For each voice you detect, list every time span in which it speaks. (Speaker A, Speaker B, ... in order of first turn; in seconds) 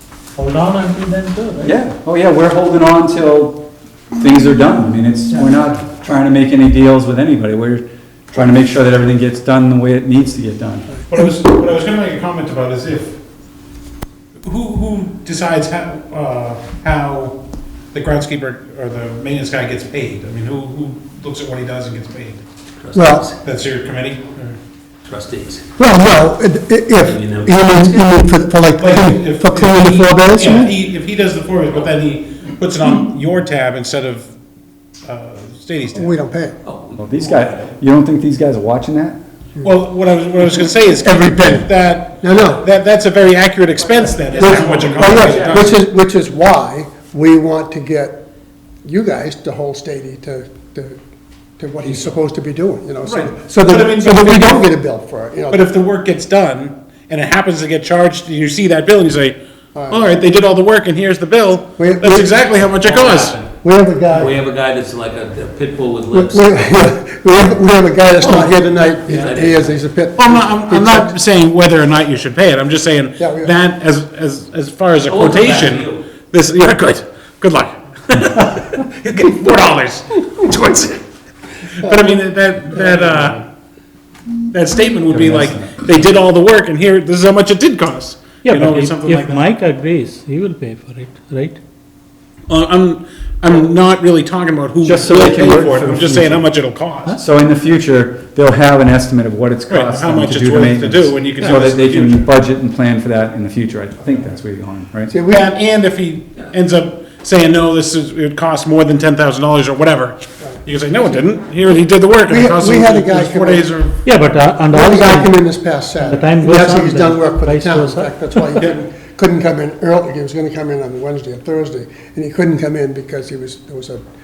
Speaker A: 0.4-1.8, 88.4-91.6, 114.0-115.3, 116.0-118.6
Speaker B: 1.6-10.9, 37.0-39.2, 85.1-85.8, 94.8-96.4, 97.2-105.1
Speaker C: 11.1-13.2, 14.4-17.4, 17.9-22.4, 23.4-24.6, 28.8-34.3, 35.0-36.1, 39.6-45.8, 53.0-54.7, 55.5-59.4, 59.9-63.4, 70.2-81.0, 81.6-83.5, 84.5-89.5, 92.5-97.2, 99.7-102.3, 105.3-114.0
Speaker D: 22.8-23.4, 25.1-25.6, 27.0-27.7, 36.6-37.6, 44.2-45.7, 62.8-63.5, 64.1-66.8, 69.1-69.8, 75.1-76.1
Speaker E: 22.9-23.3, 25.8-30.7, 36.0-36.6, 41.0-42.6, 44.3-48.2, 48.8-51.0, 51.6-55.7, 59.8-60.1, 61.8-62.3, 63.4-64.4, 66.1-71.2, 73.2-73.5, 81.9-82.2, 82.8-83.1, 105.1-105.5, 112.3-113.7, 114.7-124.0